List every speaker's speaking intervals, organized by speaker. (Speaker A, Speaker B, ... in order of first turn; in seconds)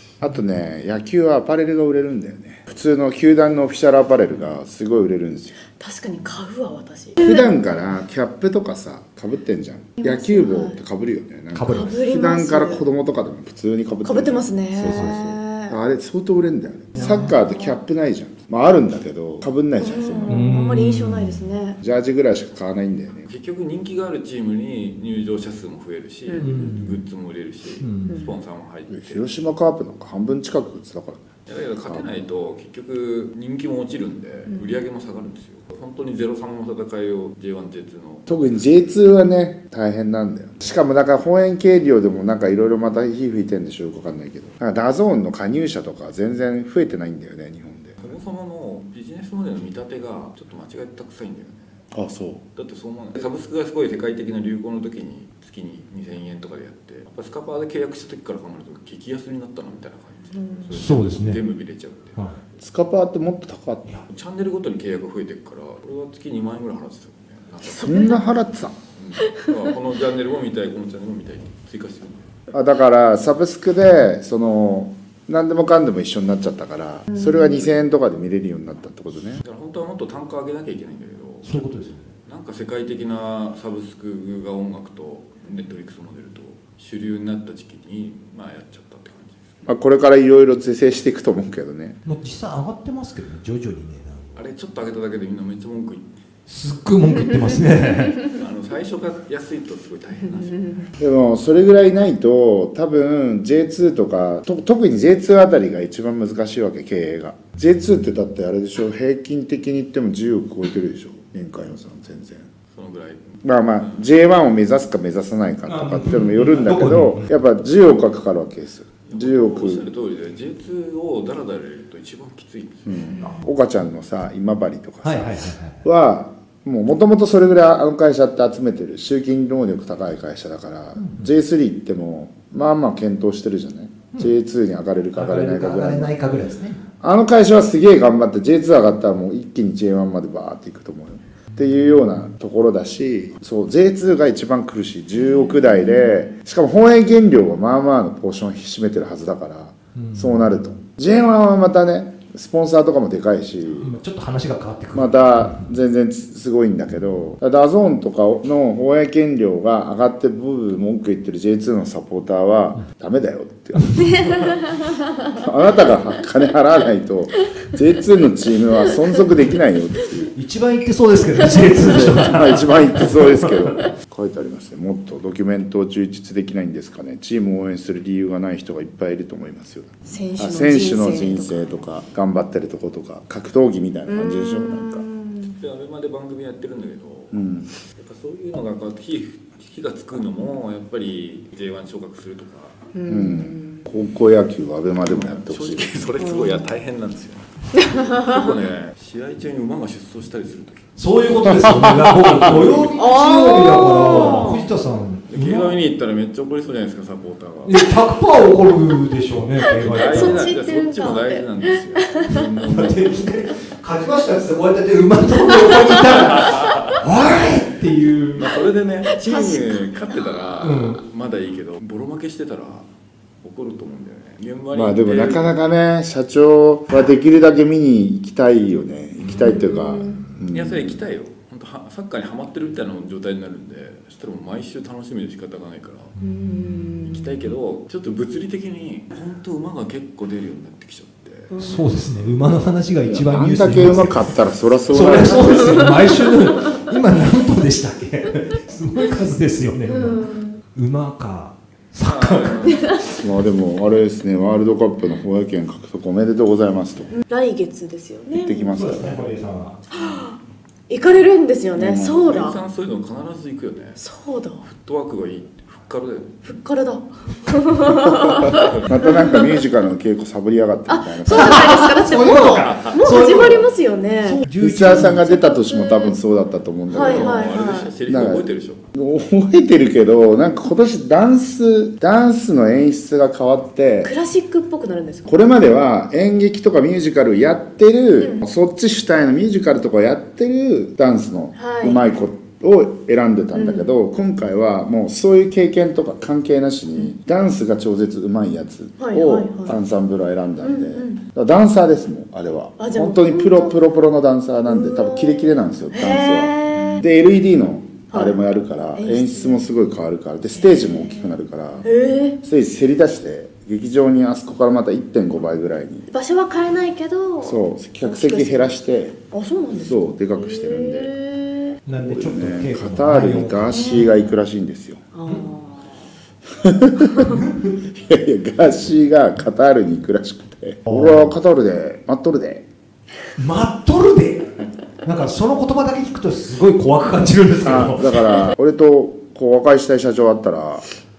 Speaker A: 0.2-5.6, 7.2-20.6, 21.8-23.3, 28.9-31.2, 38.3-48.0, 51.9-52.4, 62.6-63.9, 67.7-68.8, 72.5-79.4, 89.7-92.0, 101.0-112.5, 113.4-119.9, 122.9-136.1, 137.0-153.9, 154.9-164.6, 165.3-170.2, 171.8-185.1, 187.3-187.7, 193.1-196.0, 201.7-202.1, 224.7-231.0, 243.1-246.0, 253.1-257.2, 258.4-259.3, 261.8-262.4, 268.2-271.7, 274.6-284.1, 285.3-311.9, 312.4-316.1, 317.4-319.2, 319.8-321.1, 321.9-325.0, 326.6-327.4, 327.9-332.7, 337.6-340.9
Speaker B: 5.8-7.4, 10.0-10.8, 11.7-12.9, 14.0-15.8, 17.4-17.8, 19.8-21.8, 26.3-26.6, 28.1-28.4, 34.5-34.8, 60.3-60.8, 67.7-68.2, 69.2-69.6, 77.1-77.7, 145.3-146.3, 164.1-165.3, 180.1-181.8, 184.1-185.6, 192.9-193.9, 196.2-196.7, 198.0-198.4, 203.0-204.7, 209.7-212.5, 215.5-215.9, 219.1-219.9, 229.3-230.2, 236.2-237.3, 241.5-242.1, 245.4-246.5, 249.9-250.6, 252.7-253.2, 257.1-258.7, 259.9-260.4, 260.9-262.6, 264.0-264.6, 266.4-269.6, 270.9-274.4, 275.2-276.2, 276.9-277.9, 284.0-285.5, 288.2-288.5, 291.6-292.0, 293.5-293.9, 299.0-299.8, 300.6-301.2, 302.8-303.8, 304.6-307.1, 308.1-308.4, 308.9-309.8, 310.5-312.4, 316.1-318.7, 319.3-321.8, 323.7-324.1, 325.1-326.1
Speaker C: 11.5-11.9, 14.8-15.3, 16.9-17.4, 20.3-21.5, 26.4-27.0, 27.8-28.2, 60.7-61.4, 81.4-82.1, 92.0-94.5, 96.5-98.2, 115.7-117.3, 125.0-125.8, 130.9-131.3, 135.1-136.8, 149.9-150.6, 153.8-155.8, 163.7-164.6, 170.3-173.8, 201.0-205.8, 207.6-210.6, 212.6-218.5, 220.6-221.0, 229.3-229.6, 241.6-252.7, 258.7-259.8, 271.3-273.7, 274.2-275.4, 321.9-324.2, 327.3-327.8, 330.9-331.3, 333.4-334.5, 335.0-338.5
Speaker D: 23.3-29.3, 31.5-38.5, 48.0-51.8, 52.5-62.4, 64.1-68.1, 69.0-72.3, 79.4-89.5, 94.3-96.1, 98.2-101.0, 112.7-114.1, 119.1-123.2, 185.6-192.8, 195.0-201.0, 202.2-203.0, 203.9-204.6, 205.3-207.8, 209.8-213.1, 216.2-216.8, 218.4-222.9, 223.4-225.6, 230.5-236.2, 237.0-242.1, 252.0-253.1, 262.2-264.0, 264.6-266.5, 268.6-268.9, 272.4-273.1, 276.9-278.8